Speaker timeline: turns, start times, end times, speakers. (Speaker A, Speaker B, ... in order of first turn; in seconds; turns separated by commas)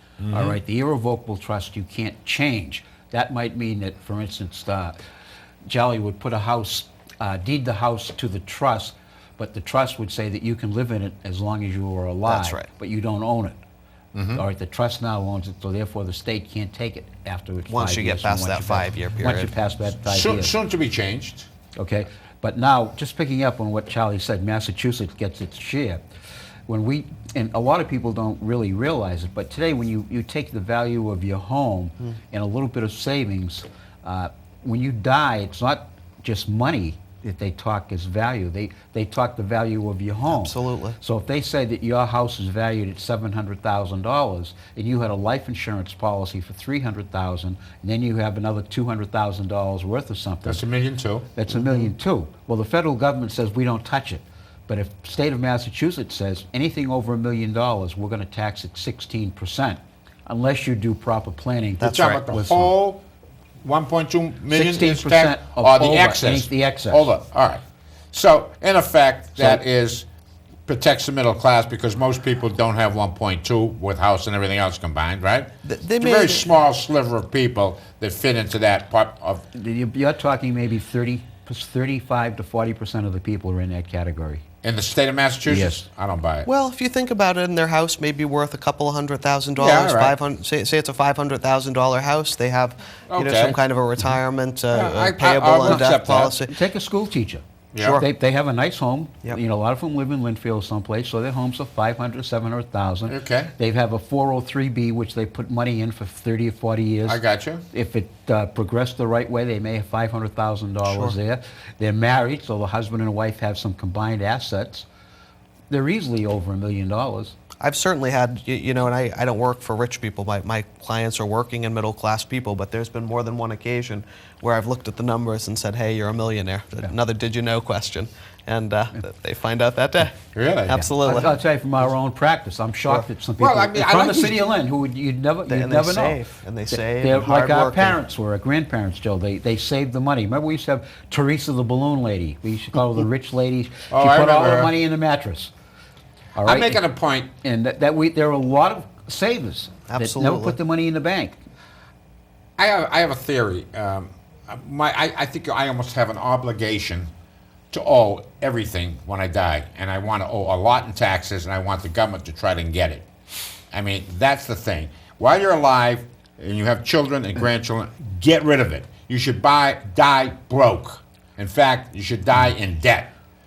Speaker A: 0.2-0.5, Speaker B: 0.3-5.0, Speaker B: 5.7-13.6, Speaker C: 12.3-12.7, Speaker A: 14.1-14.4, Speaker B: 14.3-20.5, Speaker C: 17.7-19.5, Speaker A: 20.0-21.5, Speaker B: 21.8-26.0, Speaker B: 26.7-50.6, Speaker C: 40.3-41.0, Speaker A: 50.5-51.3, Speaker B: 51.4-62.7, Speaker C: 51.5-51.9, Speaker C: 61.8-62.2, Speaker A: 61.8-63.0, Speaker A: 63.6-67.6, Speaker B: 64.5-67.1, Speaker A: 68.1-70.0, Speaker A: 70.7-79.4, Speaker C: 75.6-76.5, Speaker B: 79.5-84.4, Speaker A: 84.6-86.5, Speaker B: 85.5-85.8, Speaker C: 86.4-96.5, Speaker A: 89.6-90.1, Speaker A: 93.1-93.6, Speaker A: 94.7-96.3, Speaker B: 95.6-97.4, Speaker A: 97.7-98.0, Speaker C: 97.8-98.1, Speaker B: 97.9-107.2, Speaker A: 103.1-103.5, Speaker A: 107.0-107.6, Speaker B: 107.7-114.9, Speaker C: 110.8-111.2, Speaker B: 115.7-117.4, Speaker C: 117.6-131.4, Speaker A: 130.3-130.9, Speaker B: 131.0-145.5, Speaker A: 133.4-134.4, Speaker C: 135.5-138.0, Speaker A: 143.9-144.7, Speaker B: 146.3-146.8, Speaker A: 146.4-147.3, Speaker B: 147.4-151.4, Speaker C: 149.9-150.6, Speaker A: 152.6-157.1, Speaker A: 157.7-163.1, Speaker A: 163.7-173.1